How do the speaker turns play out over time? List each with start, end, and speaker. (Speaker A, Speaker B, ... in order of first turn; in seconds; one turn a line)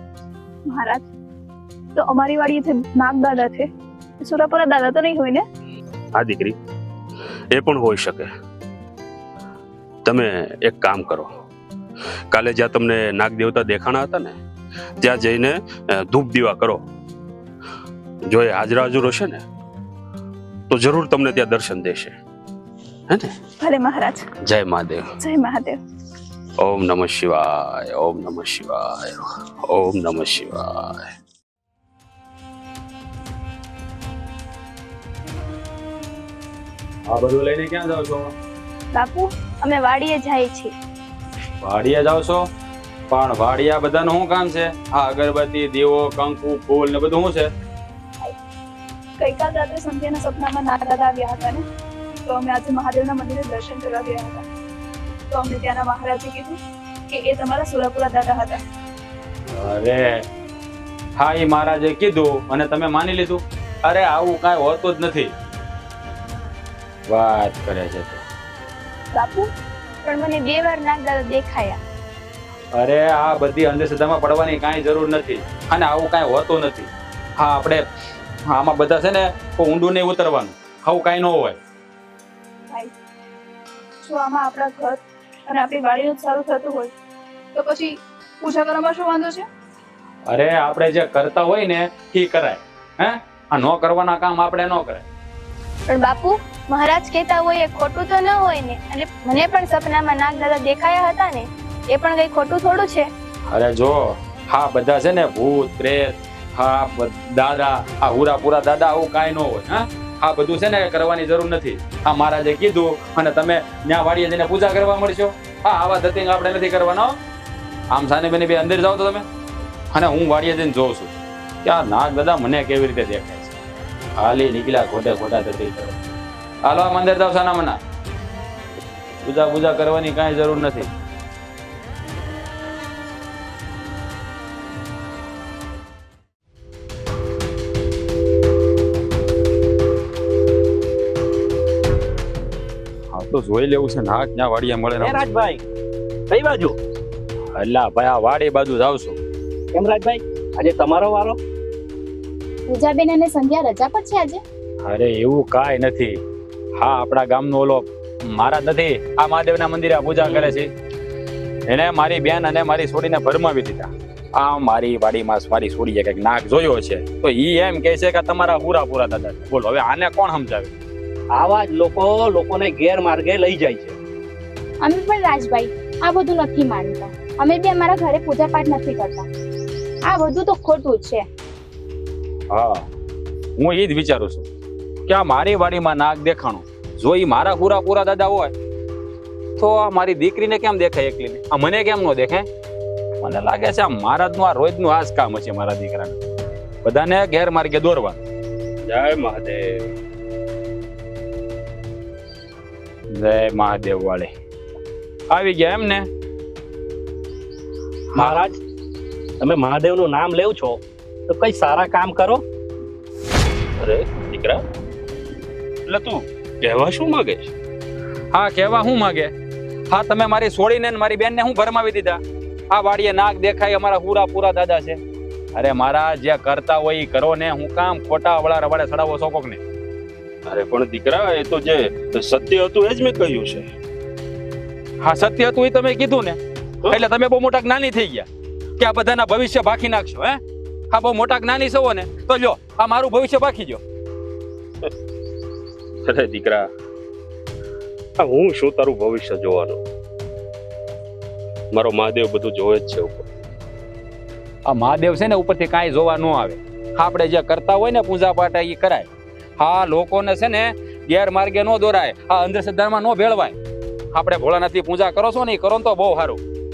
Speaker A: 0.7-1.0
Speaker A: 1.9-3.7
Speaker A: 4.2-5.4
Speaker B: 6.2-6.5
Speaker B: 7.5-8.3
Speaker B: 10.0-11.3
Speaker B: 12.3-14.3
Speaker B: 15.0-16.8
Speaker B: 18.3-19.4
Speaker B: 20.7-22.1
Speaker B: 23.1-23.4
Speaker A: 23.6-24.3
Speaker B: 24.4-25.1
Speaker A: 25.2-25.8
Speaker B: 26.6-31.1
Speaker C: 37.1-38.3
Speaker D: 38.9-40.7
Speaker C: 41.6-42.5
Speaker C: 43.1-47.5
Speaker A: 49.2-51.6
Speaker A: 52.2-54.4
Speaker A: 55.3-56.6
Speaker A: 57.1-58.6
Speaker C: 59.5-60.2
Speaker C: 61.2-65.3
Speaker C: 67.1-68.2
Speaker D: 69.1-69.5
Speaker D: 70.0-71.8
Speaker C: 72.7-77.8
Speaker C: 78.5-81.6
Speaker A: 84.0-86.9
Speaker A: 87.5-89.5
Speaker C: 90.3-95.0
Speaker D: 95.9-103.1
Speaker C: 103.5-117.2
Speaker C: 117.9-119.2
Speaker C: 119.9-123.5
Speaker C: 124.2-126.0
Speaker C: 126.7-127.8
Speaker C: 129.2-130.9
Speaker C: 143.1-145.3
Speaker E: 145.0-145.6
Speaker E: 146.3-146.7
Speaker C: 147.5-149.2
Speaker E: 149.7-151.4
Speaker F: 152.7-154.4
Speaker C: 154.8-156.2
Speaker C: 156.8-160.7
Speaker C: 161.7-170.7
Speaker E: 171.3-173.9
Speaker F: 174.8-179.3
Speaker F: 180.1-181.2
Speaker C: 182.5-182.9
Speaker C: 183.6-184.4
Speaker C: 185.1-188.5
Speaker C: 189.6-192.4
Speaker C: 193.2-196.2
Speaker C: 196.8-198.2
Speaker B: 198.8-199.9
Speaker C: 203.1-204.3
Speaker C: 205.3-206.1
Speaker E: 208.1-208.5
Speaker E: 209.4-212.4
Speaker B: 213.8-214.6
Speaker B: 215.9-217.5
Speaker C: 218.3-219.3
Speaker C: 219.9-222.2
Speaker C: 222.7-225.0
Speaker C: 225.5-229.6
Speaker B: 230.5-233.7
Speaker C: 235.0-238.3
Speaker C: 238.8-243.8
Speaker B: 246.1-246.7
Speaker B: 248.2-249.8
Speaker B: 251.7-253.3
Speaker C: 254.7-263.6
Speaker C: 264.1-266.4